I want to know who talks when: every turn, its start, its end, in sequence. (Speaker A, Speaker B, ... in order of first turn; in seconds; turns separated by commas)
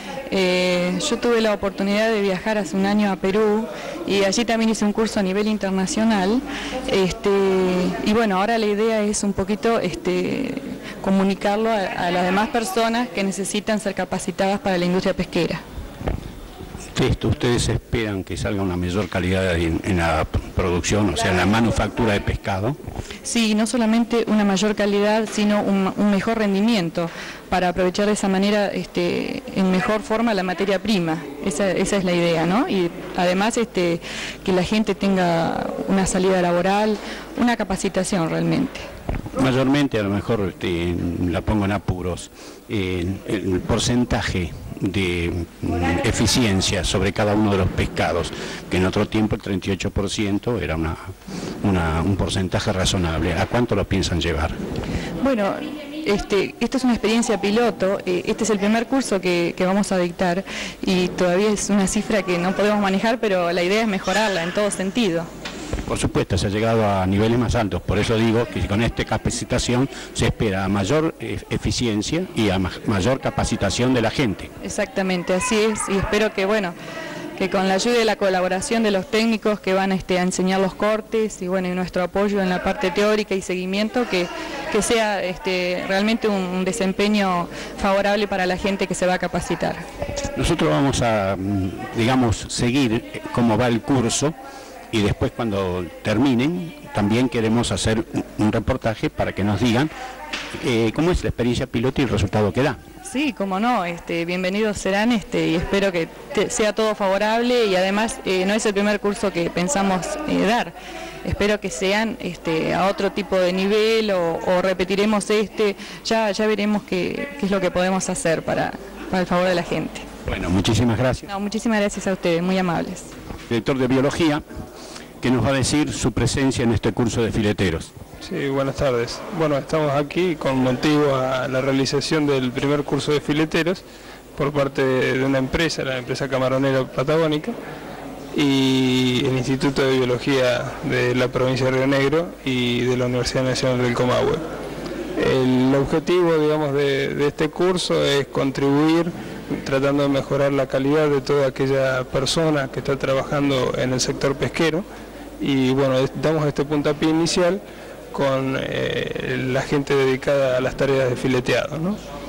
Speaker A: 0.3-15.6, Speaker B: 16.9-22.8, Speaker A: 23.2-38.9, Speaker B: 39.3-54.6, Speaker A: 55.2-65.3, Speaker B: 65.9-74.5, Speaker A: 74.6-76.7, Speaker A: 77.3-89.8, Speaker B: 90.3-94.3, Speaker B: 94.9-99.9, Speaker B: 100.5-102.8, Speaker A: 103.0-110.7, Speaker A: 111.2-120.0, Speaker B: 120.2-121.2, Speaker A: 121.2-123.1, Speaker B: 123.5-124.4, Speaker B: 125.2-127.9, Speaker C: 128.2-133.8, Speaker C: 134.3-137.6, Speaker C: 138.3-144.4, Speaker C: 145.2-154.8, Speaker C: 155.4-162.0